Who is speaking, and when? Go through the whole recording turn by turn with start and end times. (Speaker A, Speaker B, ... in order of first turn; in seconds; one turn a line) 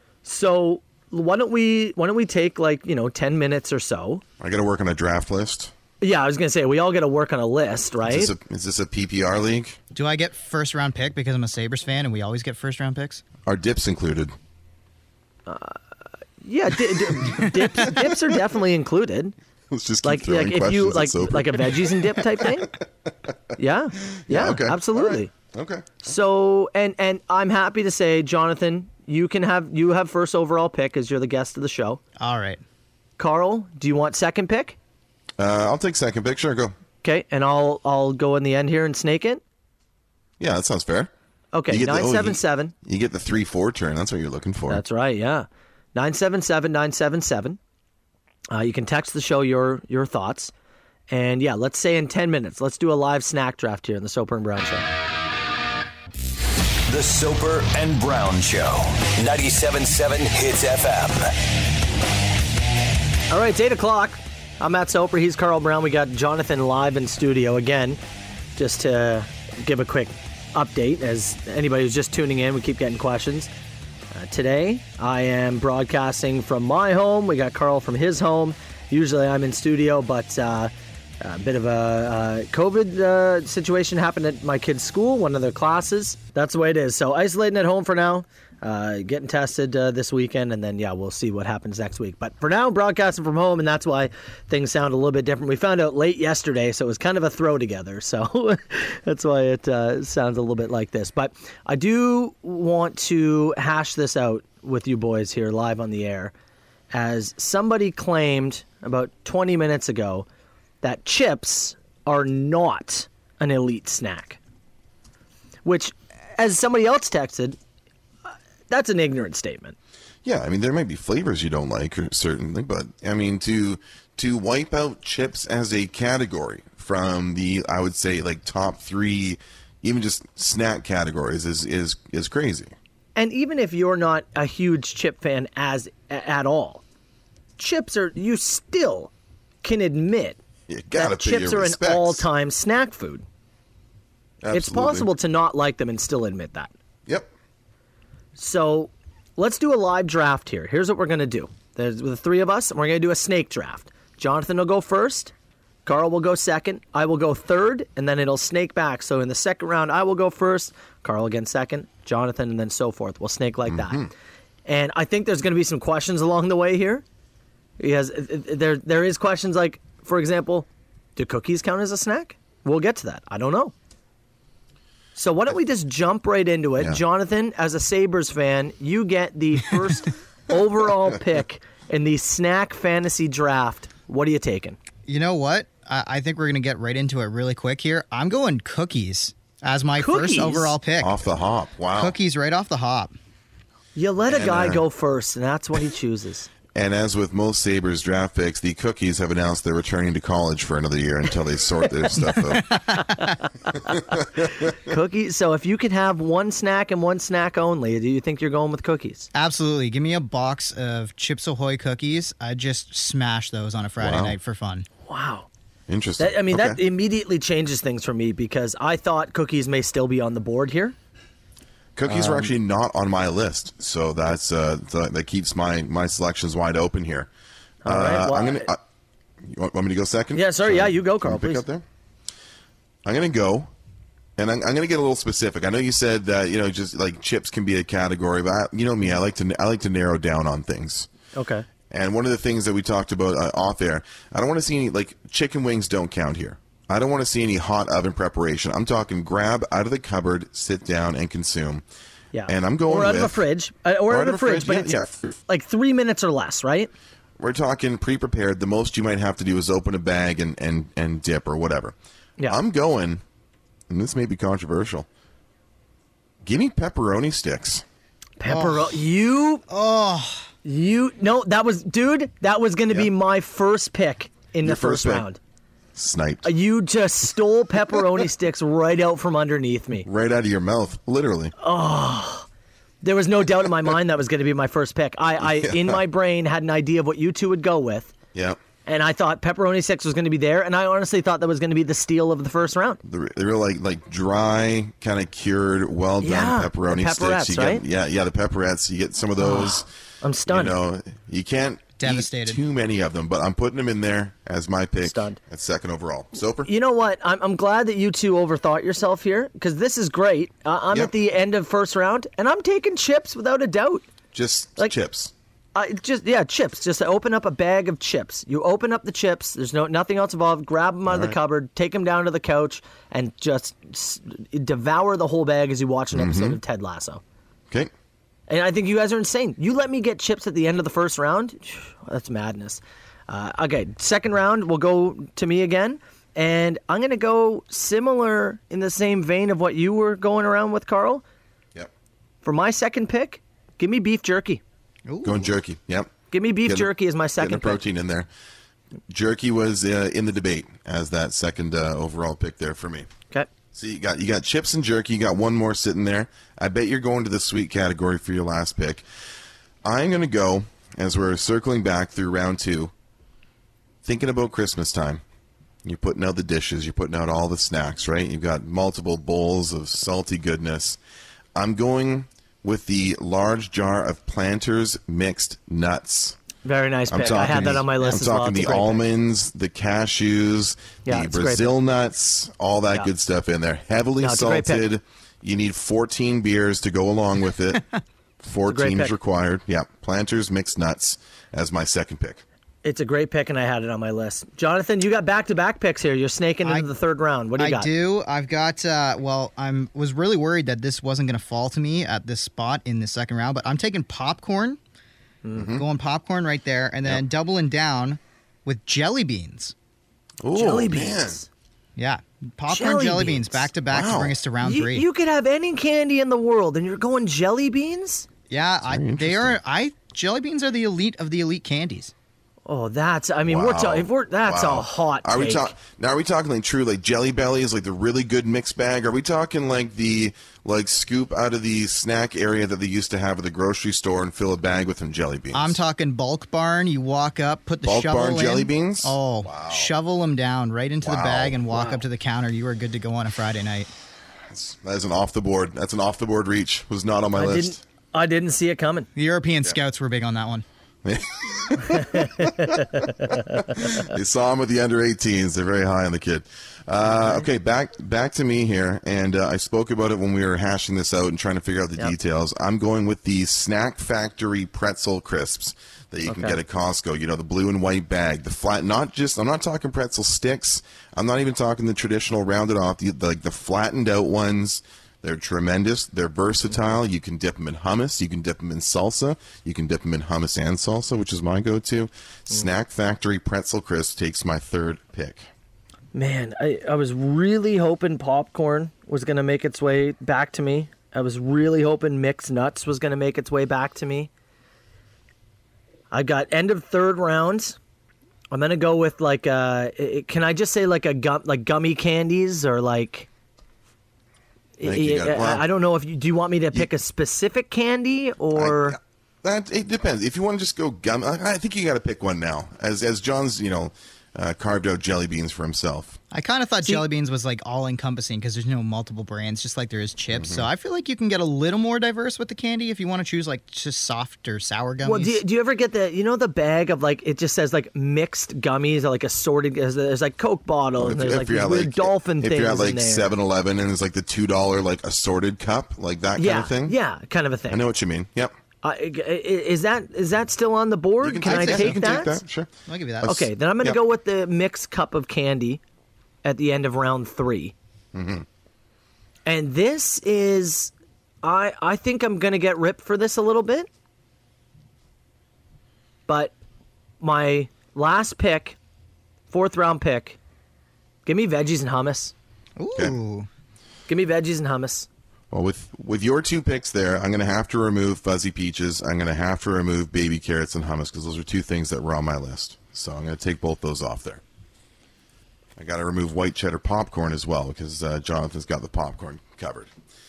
Speaker A: 0.2-4.2
Speaker B: 4.4-5.7
Speaker A: 6.0-8.3
Speaker B: 8.0-9.8
Speaker C: 9.9-13.2
Speaker B: 13.4-14.3
Speaker A: 15.5-15.8
Speaker A: 16.4-19.3
Speaker B: 19.7-22.2
Speaker A: 20.0-22.7
Speaker A: 23.6-25.3
Speaker B: 24.1-26.1
Speaker A: 26.0-32.0
Speaker C: 32.2-32.6
Speaker A: 33.2-34.8
Speaker B: 35.4-36.7
Speaker A: 37.0-39.4
Speaker B: 40.4-41.1
Speaker A: 41.5-42.7
Speaker B: 41.7-44.8
Speaker A: 44.7-47.6
Speaker A: 48.5-50.5
Speaker A: 51.1-54.9
Speaker D: 56.9-61.3
Speaker A: 63.3-68.0
Speaker A: 68.5-73.5
Speaker A: 74.1-106.3
Speaker A: 106.9-110.2
Speaker A: 110.8-114.4
Speaker A: 115.6-117.6
Speaker A: 118.3-119.8
Speaker B: 120.2-132.7
Speaker A: 133.2-136.8
Speaker A: 137.6-139.1
Speaker A: 139.6-140.4
Speaker B: 140.7-142.3
Speaker A: 140.9-143.2
Speaker B: 144.4-145.1
Speaker A: 144.5-146.7
Speaker B: 147.1-147.3
Speaker A: 148.3-155.3
Speaker A: 155.8-164.1
Speaker B: 163.7-164.1
Speaker A: 164.7-167.0
Speaker A: 167.8-173.7
Speaker A: 175.2-184.8
Speaker C: 185.1-191.1
Speaker A: 190.0-190.7
Speaker B: 191.0-192.2
Speaker C: 191.9-193.1
Speaker A: 193.9-196.5
Speaker B: 194.3-194.8
Speaker B: 196.7-202.8
Speaker C: 202.7-203.0
Speaker A: 204.6-209.3
Speaker C: 209.3-214.9
Speaker B: 214.0-214.3
Speaker A: 215.1-215.5
Speaker B: 215.9-216.8
Speaker A: 216.2-220.9
Speaker B: 221.9-227.3
Speaker A: 222.1-222.5
Speaker A: 227.8-228.7
Speaker B: 227.8-228.8
Speaker B: 229.4-231.8
Speaker A: 230.3-231.6
Speaker B: 233.0-233.7
Speaker B: 234.4-241.1
Speaker A: 241.3-241.7
Speaker B: 241.9-251.8
Speaker A: 252.3-256.9
Speaker B: 252.4-253.4
Speaker B: 254.1-255.3
Speaker B: 257.4-261.9
Speaker B: 262.5-263.2
Speaker B: 263.9-265.1
Speaker B: 266.4-267.8
Speaker A: 268.4-269.6
Speaker C: 268.5-269.0
Speaker C: 269.7-270.5
Speaker A: 270.6-275.4
Speaker B: 274.6-275.3
Speaker B: 275.9-276.5
Speaker A: 276.4-280.1
Speaker B: 280.0-281.5
Speaker A: 281.6-282.5
Speaker A: 283.0-288.1
Speaker B: 285.4-286.0
Speaker B: 288.3-288.6
Speaker A: 288.9-293.0
Speaker B: 293.0-299.9
Speaker A: 296.2-297.8
Speaker A: 299.4-300.8
Speaker B: 300.5-306.7
Speaker C: 302.0-302.6
Speaker A: 305.0-305.4
Speaker A: 306.6-314.1
Speaker B: 314.3-315.3
Speaker A: 315.7-327.2
Speaker B: 321.1-321.4
Speaker B: 326.1-326.6
Speaker A: 328.5-341.2
Speaker A: 342.4-344.6
Speaker C: 345.1-345.4
Speaker B: 345.2-346.1
Speaker A: 346.3-347.8
Speaker B: 346.6-348.3
Speaker B: 349.1-353.1
Speaker B: 353.7-359.0
Speaker B: 359.8-362.9
Speaker B: 364.0-365.2
Speaker B: 365.8-371.0
Speaker B: 371.5-376.4
Speaker A: 376.6-379.0
Speaker B: 377.1-387.8
Speaker A: 381.1-381.7
Speaker A: 384.2-384.9
Speaker B: 388.4-392.4
Speaker A: 388.7-389.1
Speaker A: 392.8-397.9
Speaker C: 396.6-396.9
Speaker C: 397.6-404.8
Speaker B: 405.5-405.8
Speaker C: 405.7-409.7
Speaker B: 410.4-411.4
Speaker A: 410.5-411.5
Speaker C: 412.0-415.1
Speaker A: 412.7-413.6
Speaker B: 413.9-414.4
Speaker A: 414.6-418.3
Speaker C: 418.5-422.1
Speaker B: 418.8-419.6
Speaker A: 422.6-425.7
Speaker B: 423.4-435.8
Speaker C: 435.5-443.9
Speaker B: 437.8-439.9
Speaker B: 441.0-441.8
Speaker B: 444.5-447.8
Speaker A: 447.3-449.1
Speaker C: 449.1-450.6
Speaker B: 451.0-452.3
Speaker A: 451.9-453.6
Speaker B: 453.8-485.5
Speaker A: 466.3-466.6
Speaker A: 486.1-494.3
Speaker A: 496.1-497.8
Speaker A: 498.5-503.3
Speaker A: 504.8-509.0
Speaker B: 504.8-505.6
Speaker B: 508.5-516.2
Speaker C: 516.3-525.4
Speaker B: 520.3-520.6
Speaker A: 525.0-533.3
Speaker B: 531.0-537.0
Speaker A: 536.4-537.8
Speaker B: 537.7-538.5
Speaker A: 538.8-542.4
Speaker B: 541.2-544.0
Speaker C: 541.4-542.0
Speaker C: 542.9-543.4
Speaker A: 543.2-545.8
Speaker A: 546.4-547.7
Speaker B: 548.1-548.5
Speaker A: 549.5-550.9
Speaker A: 551.4-553.9
Speaker A: 556.3-556.5
Speaker A: 557.2-558.8
Speaker A: 559.5-560.4
Speaker A: 561.2-562.3
Speaker C: 562.8-563.5
Speaker A: 564.1-565.1
Speaker B: 565.5-574.4
Speaker B: 575.8-579.9